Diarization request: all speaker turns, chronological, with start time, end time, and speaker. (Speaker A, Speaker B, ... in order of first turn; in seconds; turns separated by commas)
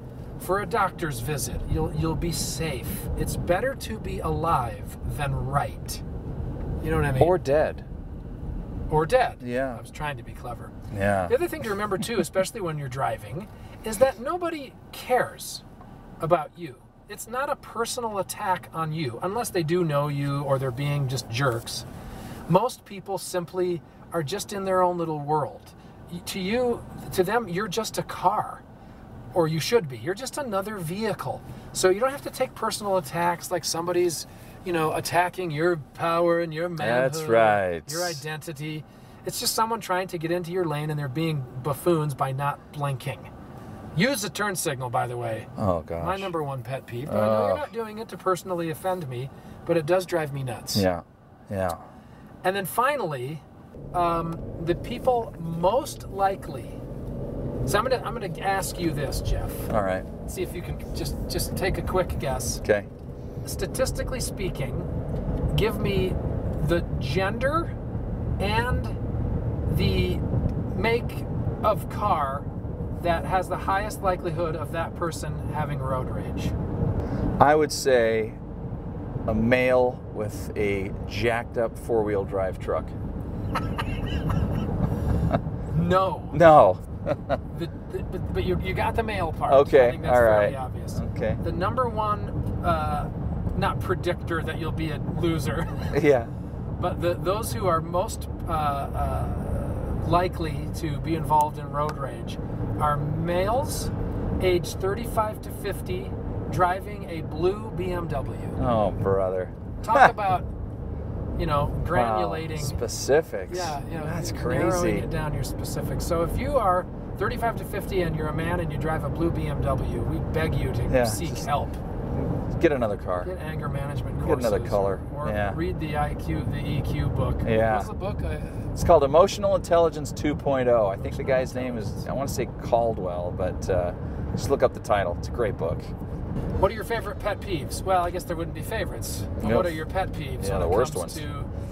Speaker A: 0.4-6.0, Speaker A: 6.8-7.4, Speaker B: 7.2-7.8, Speaker A: 8.9-10.7, Speaker B: 9.4-9.8, Speaker B: 10.9-11.3, Speaker A: 11.3-15.6, Speaker A: 16.2-21.9, Speaker A: 22.5-28.6, Speaker A: 29.3-43.3, Speaker B: 36.8-38.2, Speaker A: 43.9-50.9, Speaker B: 45.6-46.3, Speaker B: 47.0-47.7, Speaker B: 50.7-51.8, Speaker A: 52.4-53.4, Speaker A: 53.9-56.8, Speaker A: 57.6-59.7, Speaker B: 59.7-60.0, Speaker A: 60.2-62.6, Speaker A: 63.4-64.9, Speaker A: 65.5-67.7, Speaker A: 68.4-69.0, Speaker A: 69.7-72.5, Speaker A: 73.0-76.5, Speaker B: 77.4-78.4, Speaker B: 79.3-82.9, Speaker A: 85.7-86.4, Speaker B: 86.3-87.4, Speaker A: 87.5-96.0, Speaker B: 89.5-91.4, Speaker B: 95.9-96.3, Speaker A: 96.8-108.6, Speaker B: 108.6-110.1, Speaker A: 109.8-110.5, Speaker A: 111.3-112.8, Speaker B: 111.9-115.1, Speaker A: 113.5-121.8, Speaker B: 120.9-121.5, Speaker B: 122.1-123.3, Speaker A: 123.2-128.7, Speaker B: 124.2-125.6, Speaker B: 127.4-127.9, Speaker B: 128.8-135.9, Speaker A: 131.0-132.0, Speaker A: 136.6-141.5, Speaker B: 139.4-139.8, Speaker B: 140.4-141.2